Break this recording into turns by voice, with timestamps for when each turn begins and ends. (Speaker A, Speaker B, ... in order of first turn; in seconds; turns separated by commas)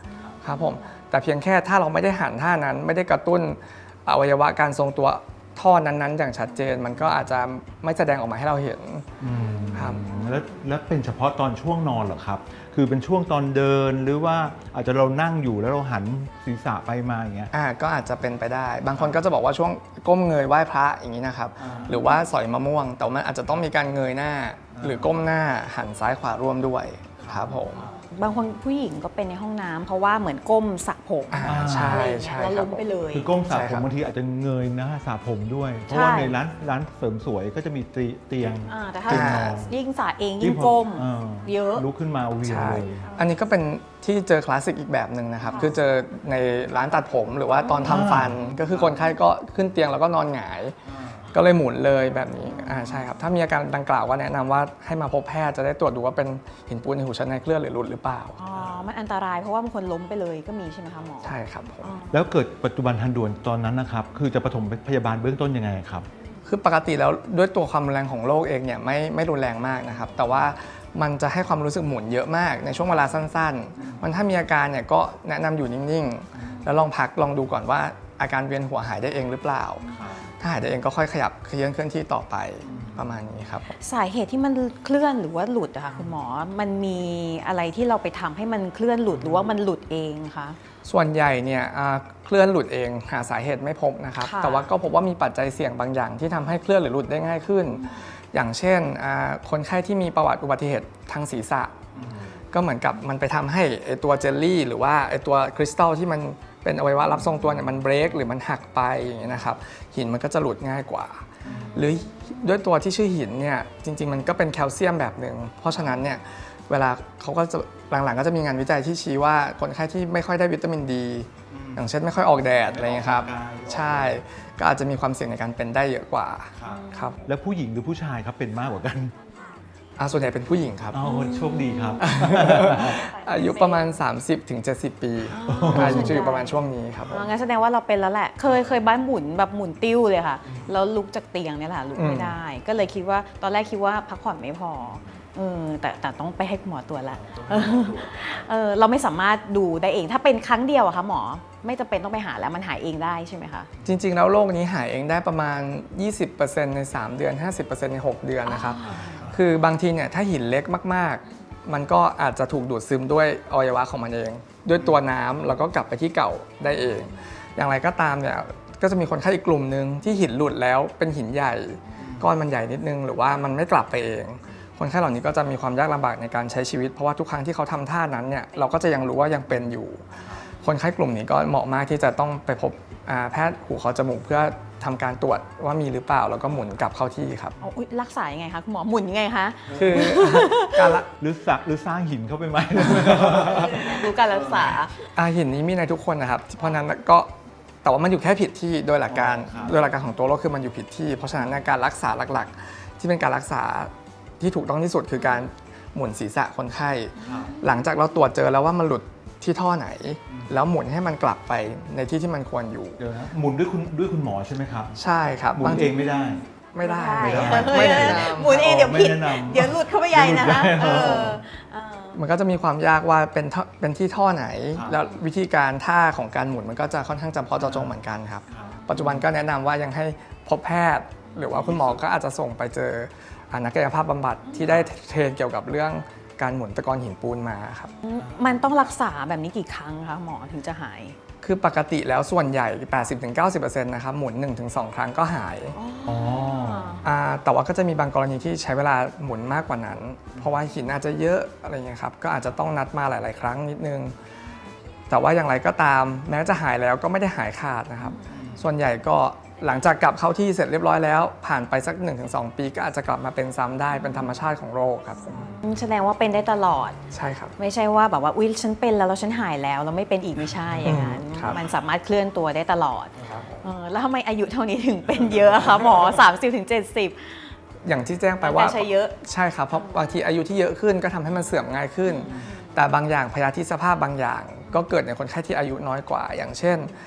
Speaker A: 0.4-9.1, Speaker B: 9.2-17.5, Speaker A: 9.7-10.0, Speaker A: 17.5-27.9, Speaker B: 21.6-22.0, Speaker B: 24.7-25.1, Speaker B: 27.2-28.0, Speaker C: 28.1-33.3, Speaker A: 31.3-32.8, Speaker B: 31.4-32.1, Speaker B: 33.1-39.7, Speaker A: 33.5-33.9, Speaker C: 35.9-36.4, Speaker C: 38.6-41.8, Speaker A: 39.1-39.6, Speaker B: 40.4-43.1, Speaker A: 42.4-50.8, Speaker C: 43.0-43.3, Speaker B: 47.8-48.9, Speaker B: 50.9-51.4, Speaker A: 51.3-58.4, Speaker C: 58.4-62.2, Speaker B: 58.5-58.8, Speaker A: 61.2-61.9, Speaker B: 62.1-66.1, Speaker A: 66.5-79.9, Speaker B: 73.8-74.1, Speaker C: 79.9-80.2, Speaker B: 79.9-80.3, Speaker A: 80.4-83.8, Speaker B: 82.7-83.0, Speaker C: 83.7-90.6, Speaker B: 89.1-89.4, Speaker A: 90.8-101.8, Speaker C: 94.2-94.7, Speaker B: 101.9-102.3, Speaker A: 102.5-127.2, Speaker B: 111.4-111.8, Speaker C: 111.5-112.2, Speaker B: 121.5-121.8, Speaker B: 122.6-124.2, Speaker B: 126.6-129.1, Speaker C: 126.7-127.2, Speaker A: 130.0-131.0, Speaker B: 130.9-133.0, Speaker C: 131.0-134.0, Speaker A: 132.0-137.2, Speaker C: 135.3-153.7, Speaker B: 135.4-136.3, Speaker B: 138.4-138.8, Speaker B: 140.4-140.7, Speaker A: 141.9-142.3, Speaker B: 147.1-148.5, Speaker A: 153.8-187.5, Speaker C: 158.4-159.3, Speaker B: 158.8-159.4, Speaker B: 172.0-172.2, Speaker C: 187.6-191.0, Speaker B: 189.7-190.5, Speaker A: 189.7-191.1, Speaker B: 191.2-194.8, Speaker C: 193.4-194.9, Speaker A: 195.1-197.3, Speaker A: 197.8-213.0, Speaker B: 199.1-199.8, Speaker C: 207.2-207.6, Speaker B: 207.2-207.5, Speaker B: 213.0-215.0, Speaker A: 214.9-215.9, Speaker B: 215.5-216.4, Speaker C: 215.9-222.2, Speaker A: 216.7-218.6, Speaker B: 217.2-221.4, Speaker A: 222.1-237.9, Speaker B: 227.6-227.9, Speaker B: 228.5-229.2, Speaker B: 231.5-232.0, Speaker C: 238.0-241.2, Speaker B: 238.2-238.6, Speaker A: 241.4-245.8, Speaker C: 245.7-247.0, Speaker B: 246.1-247.0, Speaker A: 247.0-254.2, Speaker A: 255.1-265.5, Speaker C: 258.2-258.6, Speaker B: 258.3-258.6, Speaker C: 265.6-267.0, Speaker A: 267.1-267.5, Speaker C: 267.6-277.5, Speaker A: 270.8-271.6, Speaker B: 273.1-273.5, Speaker B: 275.1-276.1, Speaker A: 277.8-286.9, Speaker C: 278.4-279.2, Speaker C: 279.7-280.0, Speaker C: 282.1-282.7